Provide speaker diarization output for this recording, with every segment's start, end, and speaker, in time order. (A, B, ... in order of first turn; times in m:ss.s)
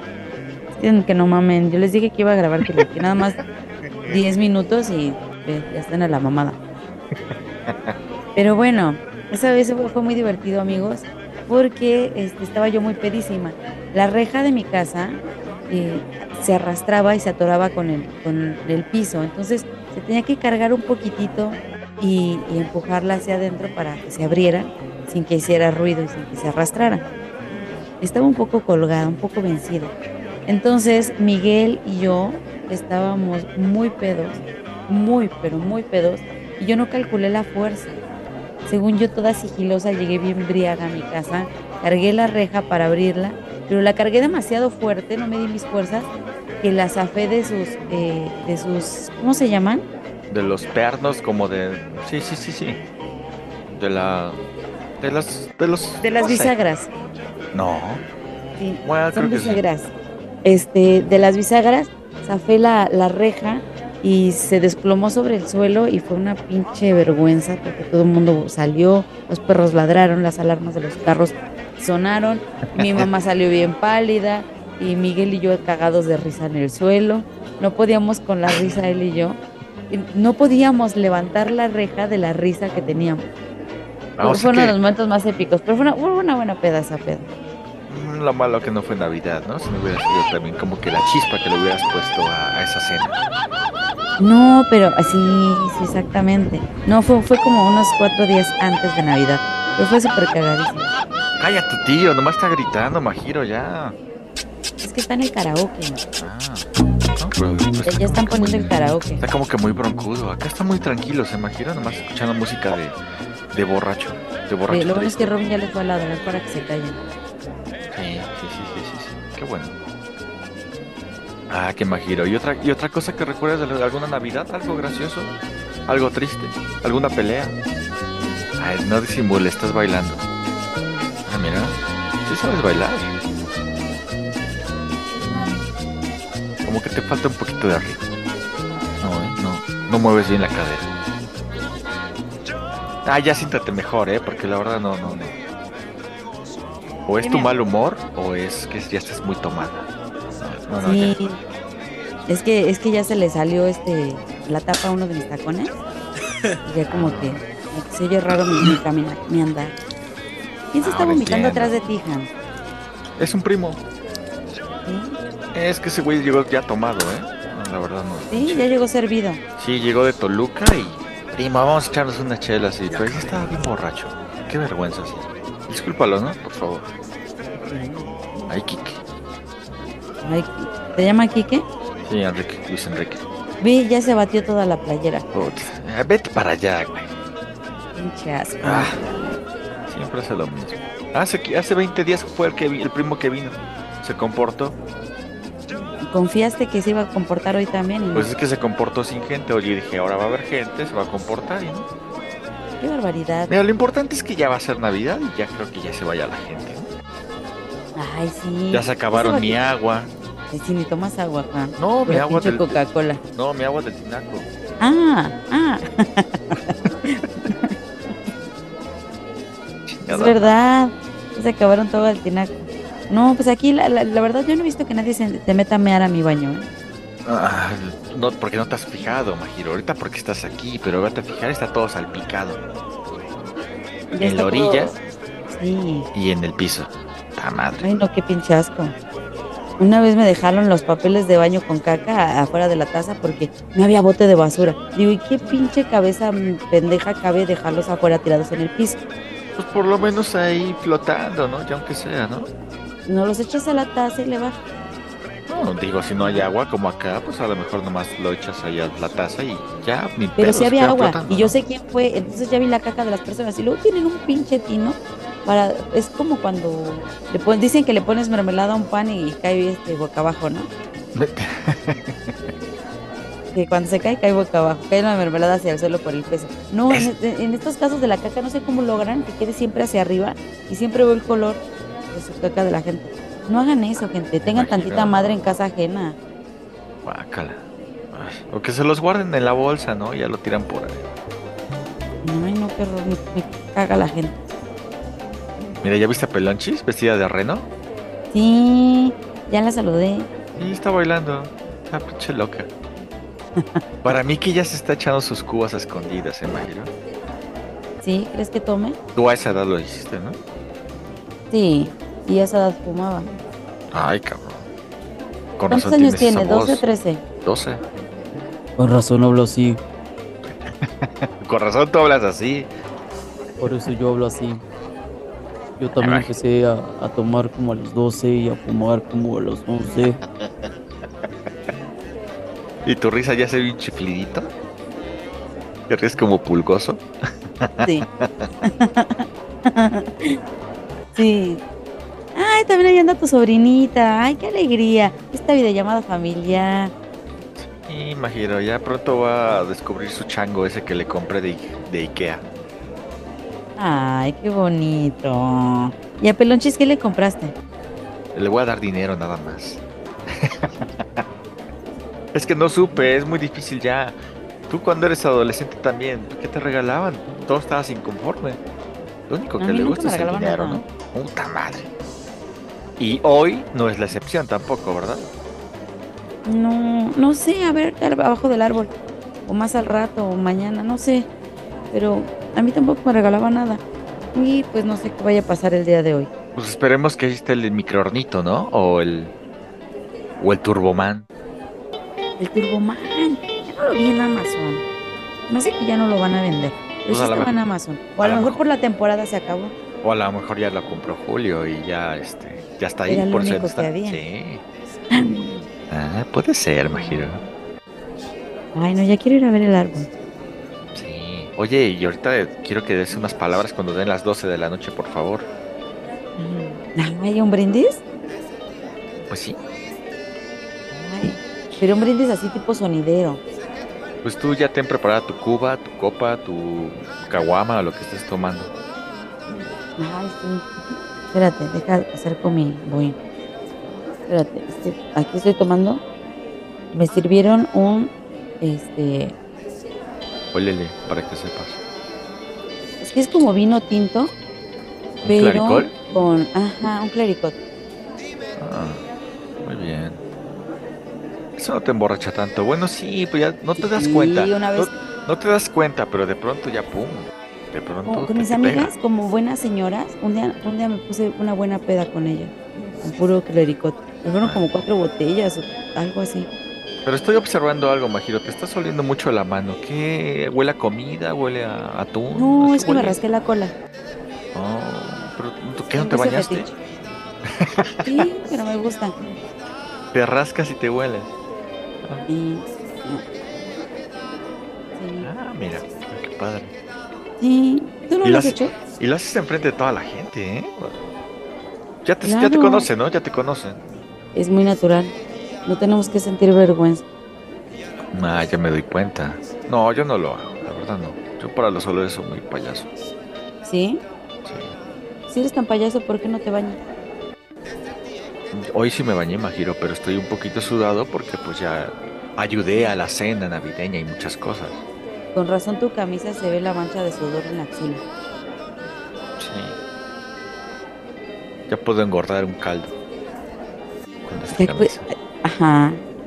0:00.7-0:03.4 A
0:04.1-0:06.6 A
0:07.7-0:08.0 B
0:08.4-0:27.0 A
0:28.0-0:29.9 A
0:30.5-0:38.0 A
0:38.7-0:46.1 A
0:46.6-0:49.9 A
0:50.3-0:52.8 B
0:53.7-0:54.4 B
0:55.0-0:56.5 B
0:56.0-0:56.9 A
0:57.5-0:58.0 B
0:58.6-0:59.9 A
0:58.8-0:59.6 B
1:00.4-1:23.3 A
1:12.8-1:13.1 B
1:24.2-1:24.8 B
1:24.2-1:27.3 A
1:27.9-1:33.2 B
1:34.2-1:40.9 A
1:41.4-1:44.0 B
1:44.8-1:46.0 A
1:46.2-1:55.3 B
1:47.8-1:49.2 A
1:54.7-1:57.0 A
1:57.9-1:59.7 B
2:01.5-2:05.3 B
2:05.9-2:07.6 B
2:08.6-2:10.2 B
2:11.3-2:13.1 B
2:16.6-2:18.0 B
2:19.0-2:20.9 B
2:23.0-2:25.3 B
2:27.1-2:29.9 B
2:27.2-2:27.5 A
2:30.4-2:31.2 B
2:30.8-2:31.4 A
2:32.3-2:35.8 A
2:36.6-2:39.8 A
2:36.9-2:37.4 B
2:40.7-2:42.3 A
2:40.8-2:41.7 B
2:43.2-2:43.8 B
2:44.9-2:45.2 A
2:45.5-2:48.7 B
2:48.3-2:49.4 A
2:49.6-2:56.9 B
2:57.7-2:58.1 A
2:58.5-2:59.0 B
3:00.2-3:01.7 A
3:02.0-3:03.2 B
3:03.6-3:05.5 A
3:05.3-3:07.1 B
3:08.0-3:09.1 A
3:08.6-3:09.0 B
3:09.9-3:14.8 B
3:16.1-3:18.3 A
3:18.1-3:21.9 B
3:22.8-3:23.5 A
3:23.5-3:26.9 B
3:28.0-3:29.6 A
3:28.7-3:30.1 B
3:30.5-3:33.2 A
3:31.8-3:32.8 B
3:33.4-3:34.5 B
3:34.8-3:38.1 A
3:39.9-3:40.5 B
3:40.1-3:46.7 A
3:47.3-3:52.6 B
3:54.1-3:55.0 A
3:54.2-3:54.9 B
3:55.5-3:56.1 A
3:56.1-3:57.9 B
3:57.8-3:59.0 A
3:59.8-4:09.0 A
4:09.6-4:12.5 B
4:13.1-4:14.6 A
4:15.5-4:21.6 B
4:16.2-4:16.4 A
4:20.4-4:30.7 A
4:31.2-4:32.5 B
4:33.5-4:46.2 A
4:44.5-4:45.5 B
4:47.0-4:51.0 B
4:52.2-4:54.4 A
4:55.8-4:57.7 B
4:58.3-5:00.3 A
5:00.6-5:02.7 B
5:03.6-5:03.8 A
5:04.0-5:06.9 B
5:08.0-5:09.0 A
5:09.2-5:10.4 B
5:11.5-5:13.3 A
5:13.9-5:14.7 B
5:15.6-5:16.9 B
5:15.7-5:17.2 A
5:17.4-5:17.8 B
5:18.8-5:19.8 C
5:18.8-5:19.3 A
5:20.5-5:22.7 B
5:23.6-5:24.6 C
5:23.6-5:23.9 A
5:25.8-5:30.0 C
5:25.8-5:26.4 A
5:26.0-5:26.3 B
5:27.3-5:27.8 A
5:29.7-5:30.2 A
5:30.3-5:31.5 B
5:32.8-5:34.5 B
5:35.9-5:37.0 B
5:37.6-5:38.5 B
5:38.6-5:40.4 A
5:41.2-5:41.6 A
5:42.4-5:46.9 A
5:47.6-5:52.4 B
5:53.8-5:57.5 A
5:58.3-6:01.2 B
6:02.3-6:04.2 B
6:04.7-6:08.6 B
6:09.3-6:11.9 B
6:09.6-6:10.8 A
6:13.0-6:15.3 B
6:16.4-6:18.9 A
6:19.5-6:21.3 A
6:21.9-6:23.8 A
6:24.3-6:26.3 A
6:26.5-6:29.3 B
6:30.4-6:31.3 B
6:32.4-6:34.8 A
6:35.5-6:39.7 A
6:37.1-6:37.6 B
6:38.2-6:38.6 B
6:40.0-6:44.6 B
6:43.1-6:44.2 A
6:45.1-6:45.7 A
6:45.9-6:47.4 B
6:47.0-6:47.3 A
6:48.8-6:50.1 A
6:50.9-6:55.5 B
6:56.4-6:58.0 A
6:59.3-6:59.6 B
7:00.9-7:03.4 A
7:04.2-7:08.7 B
7:10.0-7:10.7 A
7:11.3-7:13.2 A
7:14.3-7:16.0 A
7:16.9-7:19.4 A
7:20.5-7:21.8 B
7:23.0-7:24.3 A
7:25.2-7:25.9 B
7:25.2-7:27.6 A
7:28.6-7:29.0 B
7:29.6-7:30.2 B
7:31.6-7:38.9 B
7:33.8-7:34.9 A
7:38.1-7:46.5 A
7:47.0-7:53.2 B
7:52.4-7:53.8 A
7:54.5-7:56.7 B
7:56.0-7:56.7 A
7:57.5-7:58.3 B
7:58.0-7:59.2 A
8:00.1-8:01.3 B
8:02.3-8:03.2 A
8:05.0-8:05.3 A
8:05.2-8:06.7 B
8:07.4-8:08.7 A
8:08.2-8:11.0 B
8:12.0-8:13.8 B
8:12.2-8:12.9 A
8:14.4-8:15.2 A
8:15.7-8:17.0 A
8:18.1-8:22.9 B
8:23.6-8:24.0 A
8:25.3-8:26.8 A
8:28.5-8:34.8 B
8:35.4-8:38.0 A
8:39.4-8:39.8 B
8:41.7-8:42.9 B
8:44.2-8:45.1 B
8:44.5-8:46.0 A